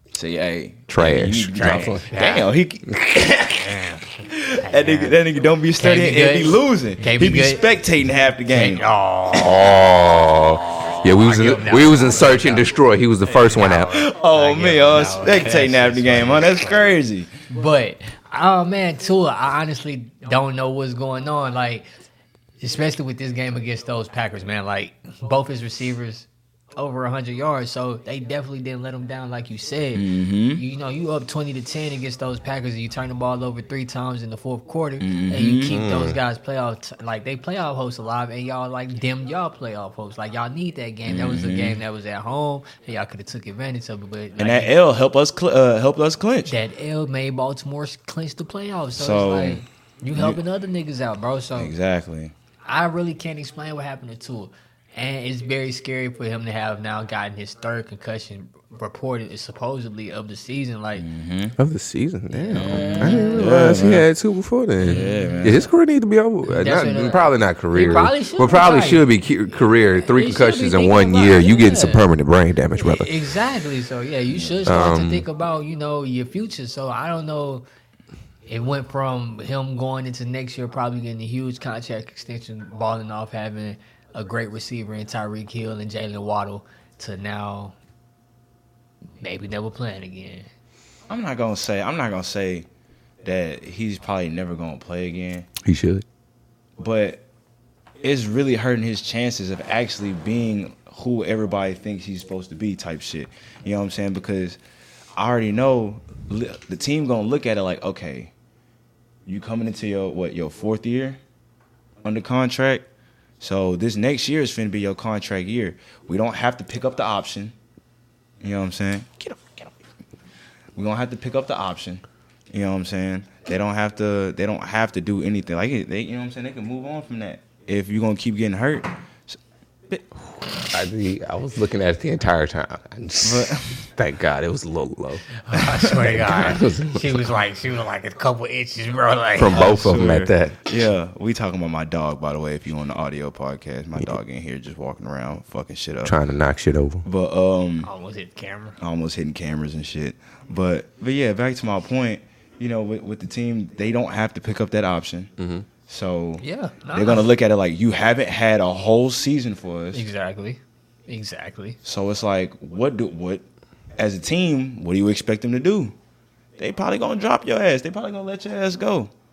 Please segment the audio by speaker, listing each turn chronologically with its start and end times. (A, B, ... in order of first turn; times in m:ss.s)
0:00.1-0:08.9 A
0:00.9-0:02.0 B
0:01.6-0:02.5 C
0:03.4-0:05.2 C
0:05.8-0:07.6 C
0:08.5-0:09.7 C
0:09.3-0:13.9 B
0:10.5-0:12.7 C
0:13.3-0:16.9 C
0:13.9-0:17.3 A
0:17.5-0:21.8 C
0:22.6-0:44.7 C
0:29.9-0:30.6 A
0:35.0-0:35.8 A
0:35.7-0:36.2 B
0:41.0-0:41.8 A
0:44.4-0:46.5 A
0:46.5-0:51.7 C
0:49.0-0:49.6 A
0:50.1-0:50.4 A
0:51.6-0:52.3 A
0:52.7-1:01.0 C
1:01.0-1:01.6 A
1:01.6-1:13.1 B
1:02.3-1:03.5 C
1:02.5-1:04.0 A
1:04.8-1:05.7 A
1:04.8-1:05.6 C
1:06.4-1:09.1 C
1:09.9-1:12.0 C
1:12.8-1:17.6 C
1:14.6-1:15.2 B
1:18.5-1:27.8 C
1:29.2-1:30.5 C
1:31.1-1:32.7 A
1:33.2-1:35.5 A
1:35.6-1:36.0 B
1:36.8-1:37.2 A
1:38.0-1:44.6 A
1:45.2-1:48.3 A
1:49.2-1:51.2 A
1:52.0-1:52.8 A
1:53.4-1:57.5 A
1:58.4-1:59.7 A
2:00.8-2:09.4 A
2:10.7-2:17.3 B
2:13.2-2:13.9 A
2:15.5-2:19.8 C
2:19.4-2:20.6 B
2:19.5-2:26.2 A
2:26.0-2:27.0 B
2:27.0-2:27.9 A
2:27.8-2:28.8 C
2:28.8-2:35.3 A
2:35.4-2:35.6 B
2:35.9-2:40.0 A
2:36.4-2:37.3 C
2:39.9-2:41.8 C
2:41.8-2:43.4 A
2:44.0-2:45.9 A
2:46.6-2:49.1 A